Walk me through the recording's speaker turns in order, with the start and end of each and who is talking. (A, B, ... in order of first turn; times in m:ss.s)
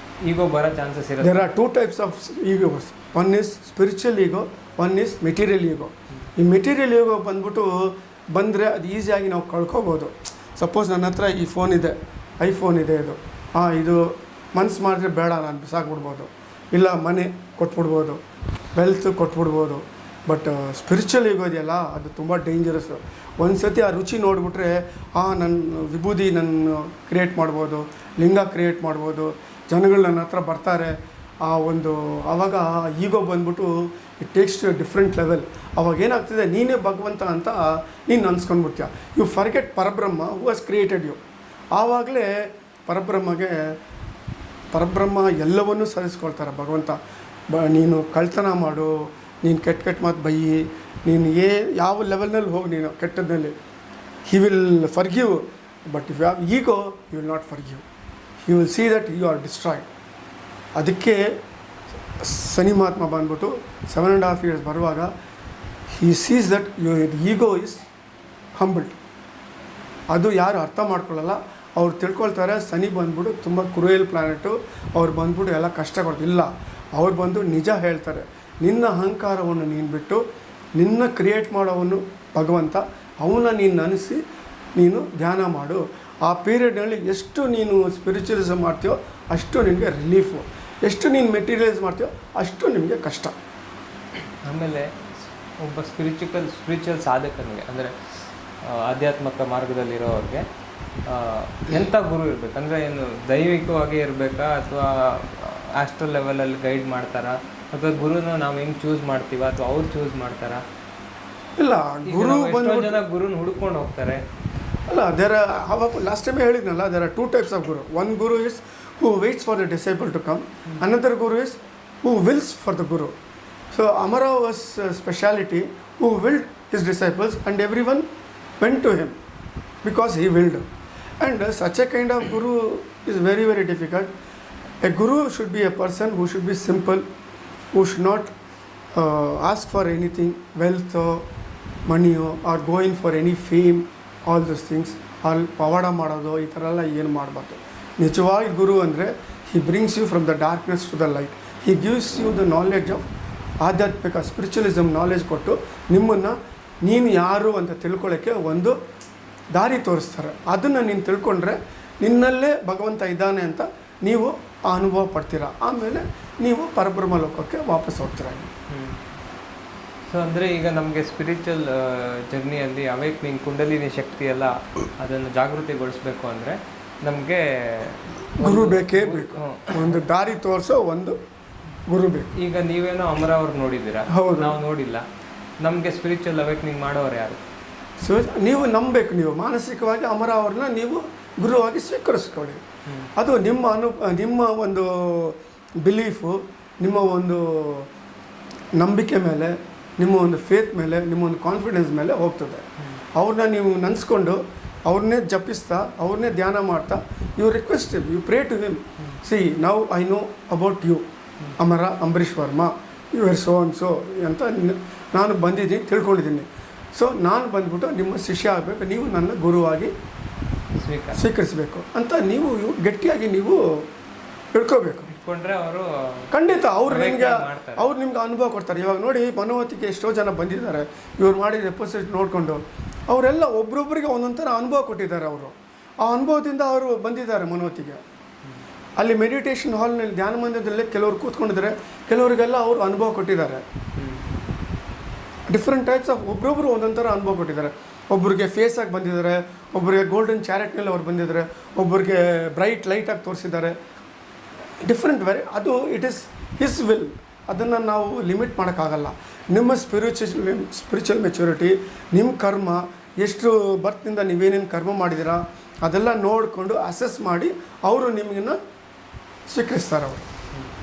0:00.2-0:01.5 A
0:01.2-0:18.2 B
0:18.7-0:41.2 B
0:41.7-0:43.7 B
0:44.7-0:47.0 B
0:47.5-0:53.5 B
0:54.3-0:57.8 B
0:58.4-0:59.9 B
1:00.8-1:01.3 B
1:02.2-1:05.1 B
1:05.9-1:07.8 B
1:08.6-1:09.0 B
1:10.1-1:20.2 B
1:20.8-1:24.2 B
1:24.8-1:33.3 B
1:34.4-1:34.9 A
1:35.6-1:40.4 A
1:41.1-1:50.6 A
1:51.6-1:53.0 B
1:52.0-1:54.2 A
1:54.9-2:03.1 B
2:03.7-2:08.1 B
2:08.6-2:09.2 B
2:09.8-2:10.6 B
2:11.2-2:14.1 B
2:14.8-2:17.0 B
2:17.7-2:18.3 B
2:18.9-2:21.2 B
2:21.9-2:33.1 B
2:33.6-2:38.8 B
2:39.5-2:48.5 B
2:48.7-2:49.0 A
2:50.1-3:00.0 A
2:58.4-3:01.2 B
3:01.9-3:02.3 B
3:02.4-3:05.0 A
3:04.1-3:04.6 B
3:05.6-3:07.4 A
3:08.0-3:12.6 B
3:13.2-3:17.9 B
3:18.8-3:22.6 B
3:23.2-3:31.0 B
3:31.6-3:39.9 B
3:40.8-3:41.2 A
3:41.1-3:43.8 B
3:44.5-3:45.1 B
3:45.1-3:47.9 A
3:46.3-3:58.0 B
3:59.0-4:03.6 B
4:04.0-4:04.3 A
4:05.5-4:13.7 B
4:14.8-4:28.6 B
4:29.5-4:30.3 B